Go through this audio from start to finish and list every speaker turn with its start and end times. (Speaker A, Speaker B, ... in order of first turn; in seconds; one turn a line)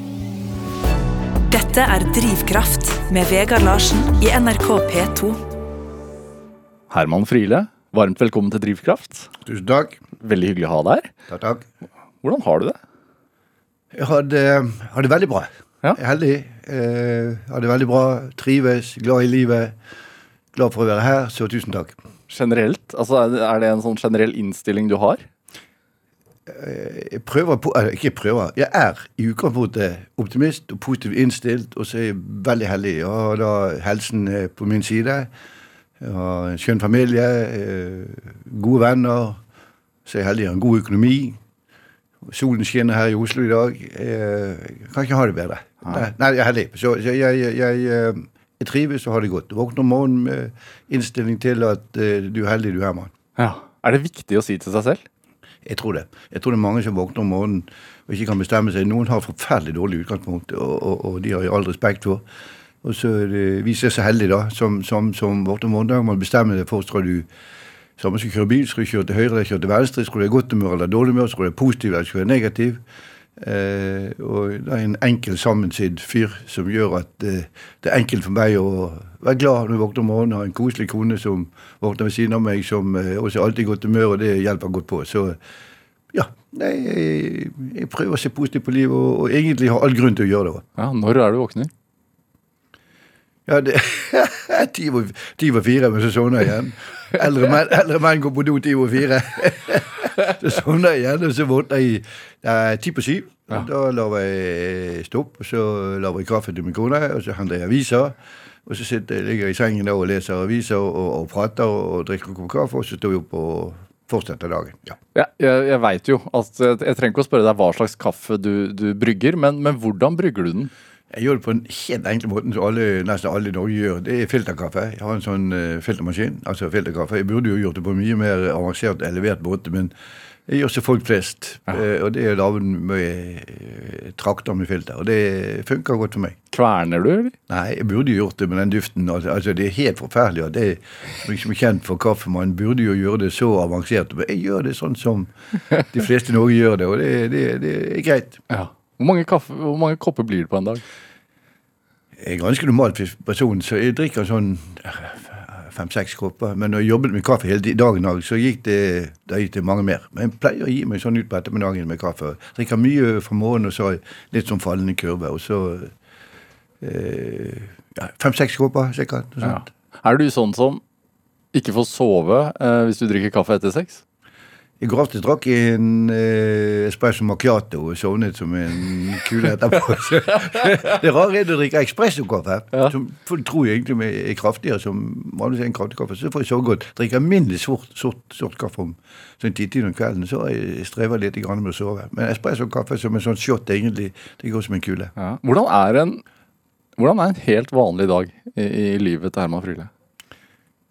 Speaker A: 1.5-5.4
Speaker B: 6.9-9.3
Speaker C: 9.4-10.0
Speaker B: 10.2-11.1
Speaker C: 11.3-11.7
Speaker B: 12.2-12.8
Speaker C: 13.9-19.8
Speaker C: 20.5-22.0
Speaker B: 22.3-25.2
Speaker C: 26.5-35.3
Speaker C: 36.0-39.4
Speaker C: 40.1-41.4
Speaker C: 42.3-53.1
Speaker B: 53.4-55.0
Speaker C: 55.6-62.2
Speaker C: 62.8-67.3
Speaker C: 68.0-72.8
Speaker C: 73.4-85.4
Speaker C: 86.1-90.6
Speaker B: 90.8-91.7
Speaker C: 93.5-115.0
Speaker B: 115.2-120.7
Speaker C: 121.1-129.9
Speaker C: 130.5-136.4
Speaker B: 136.5-137.3
Speaker C: 137.5-148.4
Speaker B: 148.5-150.8
Speaker C: 152.2-165.9
Speaker C: 166.8-169.7
Speaker B: 169.4-170.8
Speaker B: 171.5-174.0
Speaker C: 174.8-195.1
Speaker B: 180.5-180.9
Speaker B: 195.2-196.2
Speaker B: 197.0-199.9